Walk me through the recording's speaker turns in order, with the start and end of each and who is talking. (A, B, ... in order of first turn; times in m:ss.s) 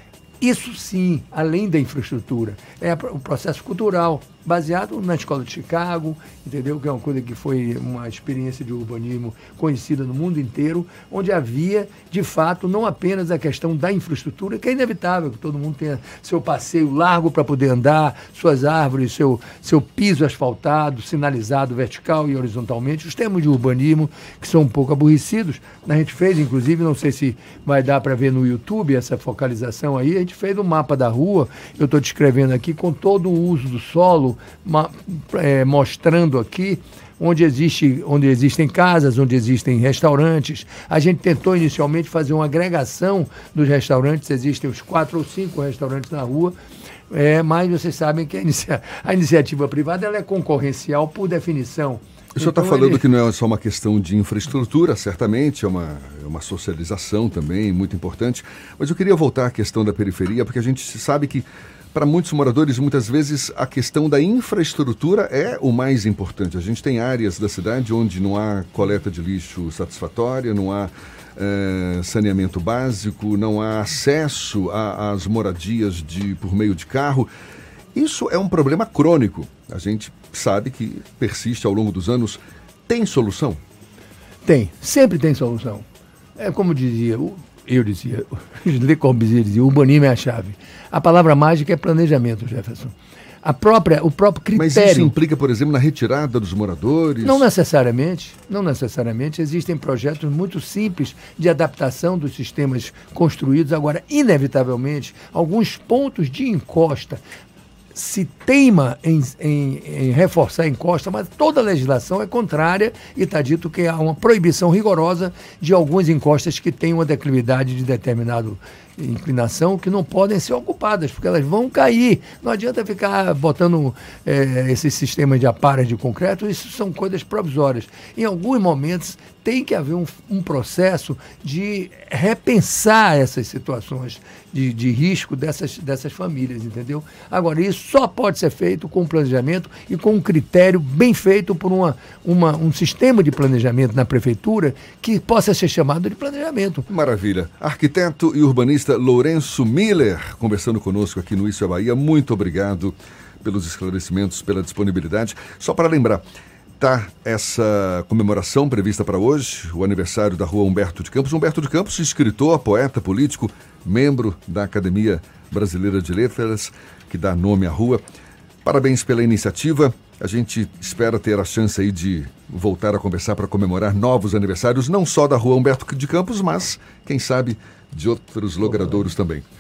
0:00.4-0:46.6 A
0:47.1-0:53.0 A
0:52.4-1:17.3 B
1:18.0-1:23.6 B
1:24.4-1:25.8 A
1:26.4-1:35.1 A
1:34.5-1:37.5 B
1:37.2-1:47.2 A
1:47.9-2:26.8 A
2:26.9-2:36.2 B
2:36.8-2:48.0 B
2:48.6-2:59.4 B
2:58.6-2:59.0 A